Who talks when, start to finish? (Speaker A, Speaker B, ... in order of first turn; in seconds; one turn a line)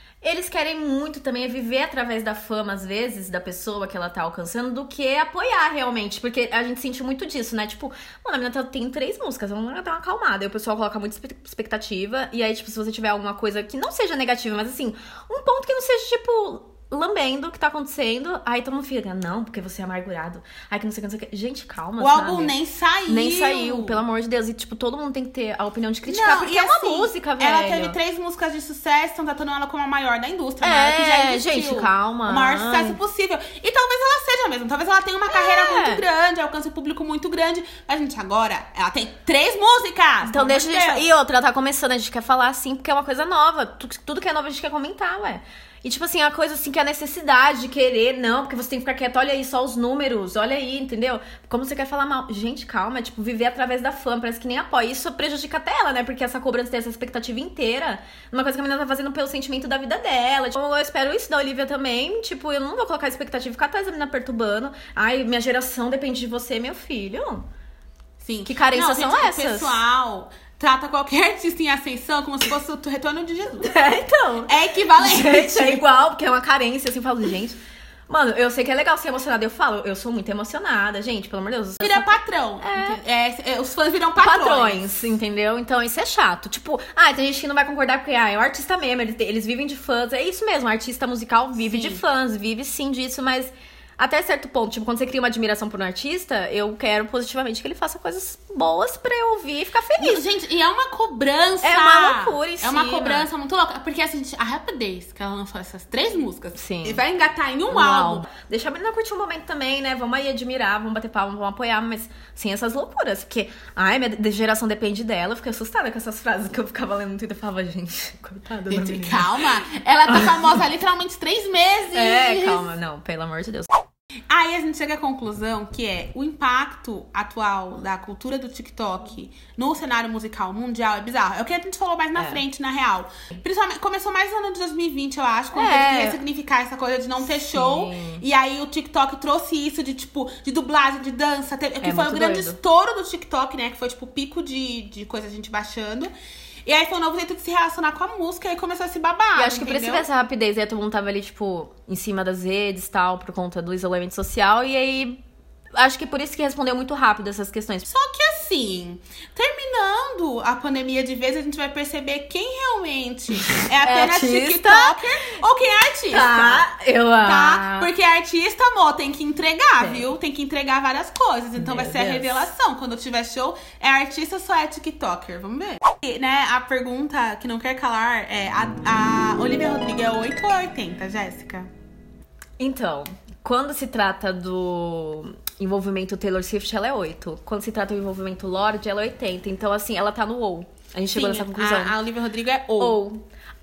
Speaker A: 0.2-22.5
Speaker B: 22.0-24.0
Speaker A: 23.1-28.0
Speaker B: 26.1-41.0
Speaker A: 30.6-33.0
Speaker A: 35.3-36.0
Speaker A: 40.2-67.5
Speaker B: 68.2-73.7
Speaker A: 68.5-69.8
Speaker A: 73.6-83.0
Speaker B: 74.5-75.8
Speaker B: 81.8-84.8
Speaker A: 84.2-100.2
Speaker B: 91.7-92.0
Speaker B: 100.0-108.2
Speaker A: 101.6-103.3
Speaker A: 106.5-107.0
Speaker A: 107.7-119.3
Speaker B: 118.7-122.7
Speaker A: 120.1-120.4
Speaker A: 121.9-123.7
Speaker B: 124.3-146.1
Speaker A: 132.1-132.4
Speaker A: 135.5-136.2
Speaker A: 137.2-138.2
Speaker A: 141.8-142.6
Speaker B: 146.7-150.1
Speaker A: 149.3-155.2
Speaker A: 155.8-157.8
Speaker B: 157.9-166.7
Speaker A: 163.5-165.0
Speaker A: 166.1-167.9
Speaker B: 167.2-181.7
Speaker A: 169.8-170.1
Speaker A: 171.6-172.5
Speaker A: 182.6-192.0
Speaker B: 191.1-193.0
Speaker A: 192.8-193.2